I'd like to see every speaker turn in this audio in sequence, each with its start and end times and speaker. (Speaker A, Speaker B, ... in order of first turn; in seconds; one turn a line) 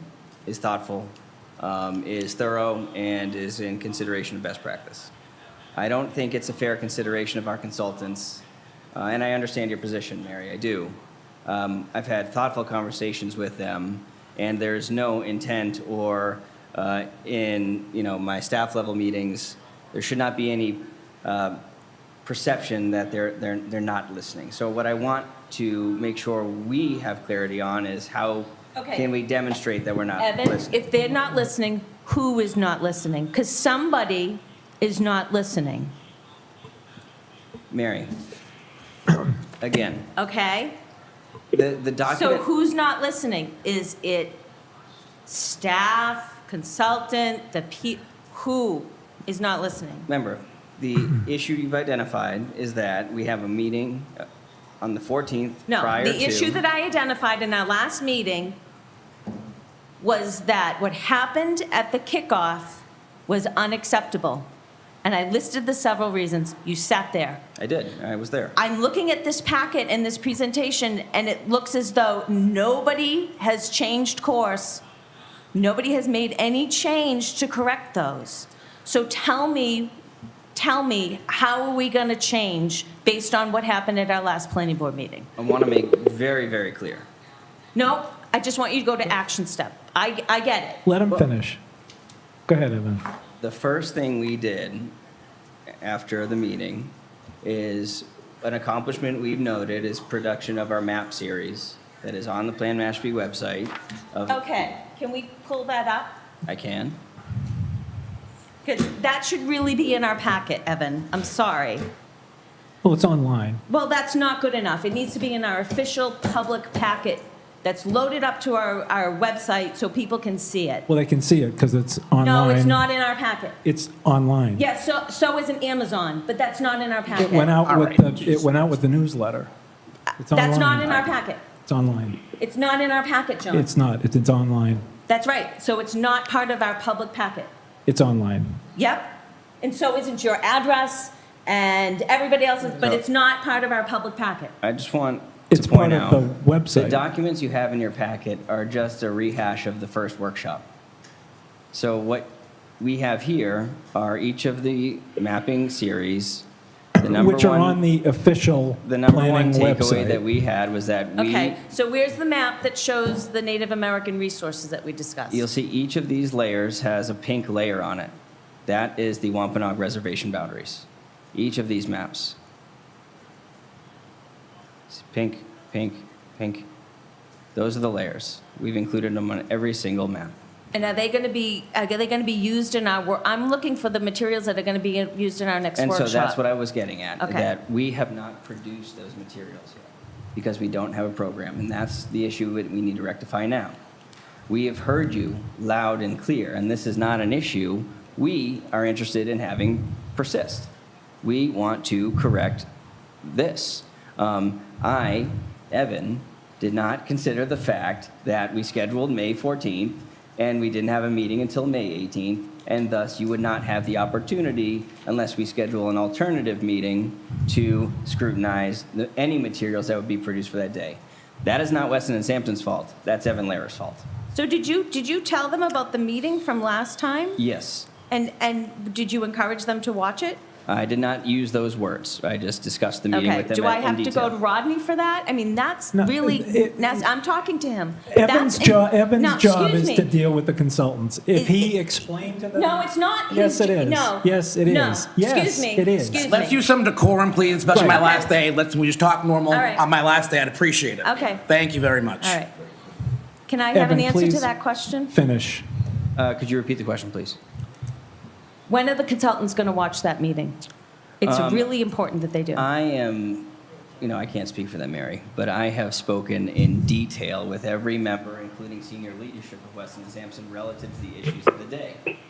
Speaker A: 0.5-5.1
Speaker A: 5.8-21.6
Speaker A: 22.2-30.8
Speaker B: 28.8-29.1
Speaker B: 30.2-35.9
Speaker A: 37.7-38.1
Speaker A: 39.6-40.1
Speaker B: 40.2-40.8
Speaker A: 41.5-42.5
Speaker B: 42.1-44.4
Speaker B: 45.3-50.1
Speaker A: 50.1-54.2
Speaker A: 54.8-56.6
Speaker B: 55.7-58.6
Speaker B: 60.0-64.5
Speaker B: 65.0-67.4
Speaker A: 67.6-68.6
Speaker B: 68.6-74.8
Speaker B: 75.5-80.0
Speaker B: 80.5-85.3
Speaker A: 85.4-87.1
Speaker B: 87.8-90.8
Speaker C: 90.9-91.6
Speaker C: 92.5-93.0
Speaker A: 93.4-94.9
Speaker A: 95.8-104.5
Speaker B: 104.3-106.2
Speaker A: 106.5-107.0
Speaker B: 108.6-111.9
Speaker C: 112.8-113.6
Speaker B: 113.7-120.9
Speaker C: 120.9-122.8
Speaker B: 122.2-123.6
Speaker C: 123.7-124.6
Speaker B: 124.6-127.5
Speaker C: 127.2-129.5
Speaker D: 127.6-128.4
Speaker C: 130.2-131.1
Speaker B: 130.3-131.4
Speaker C: 131.7-132.2
Speaker B: 132.4-133.7
Speaker C: 133.5-134.8
Speaker B: 135.1-137.5
Speaker C: 137.9-138.6
Speaker B: 138.8-144.5
Speaker A: 144.6-150.7
Speaker C: 145.5-147.0
Speaker A: 151.7-156.5
Speaker C: 157.0-160.2
Speaker A: 157.0-157.8
Speaker A: 158.8-161.6
Speaker B: 161.2-165.5
Speaker A: 165.3-168.1
Speaker A: 168.7-172.4
Speaker A: 174.9-176.7
Speaker A: 177.6-180.4
Speaker B: 180.7-186.4
Speaker A: 185.8-193.8
Speaker B: 187.2-187.5
Speaker A: 194.5-200.7
Speaker A: 201.2-202.7
Speaker A: 203.2-224.1
Speaker B: 224.3-227.4
Speaker A: 227.4-227.9
Speaker B: 228.1-230.4
Speaker A: 230.7-234.3
Speaker B: 233.1-240.1
Speaker C: 235.9-237.1
Speaker C: 238.1-246.3
Speaker B: 241.3-241.7
Speaker B: 242.5-246.7
Speaker D: 246.2-252.4
Speaker C: 247.7-248.1
Speaker B: 247.7-248.3
Speaker B: 249.5-249.9
Speaker B: 251.0-251.4
Speaker B: 252.2-252.5
Speaker B: 253.5-255.1
Speaker C: 253.7-254.5
Speaker C: 255.1-255.7
Speaker A: 256.2-257.4
Speaker B: 258.7-260.6
Speaker B: 261.2-262.6
Speaker A: 261.2-261.7
Speaker A: 262.6-272.0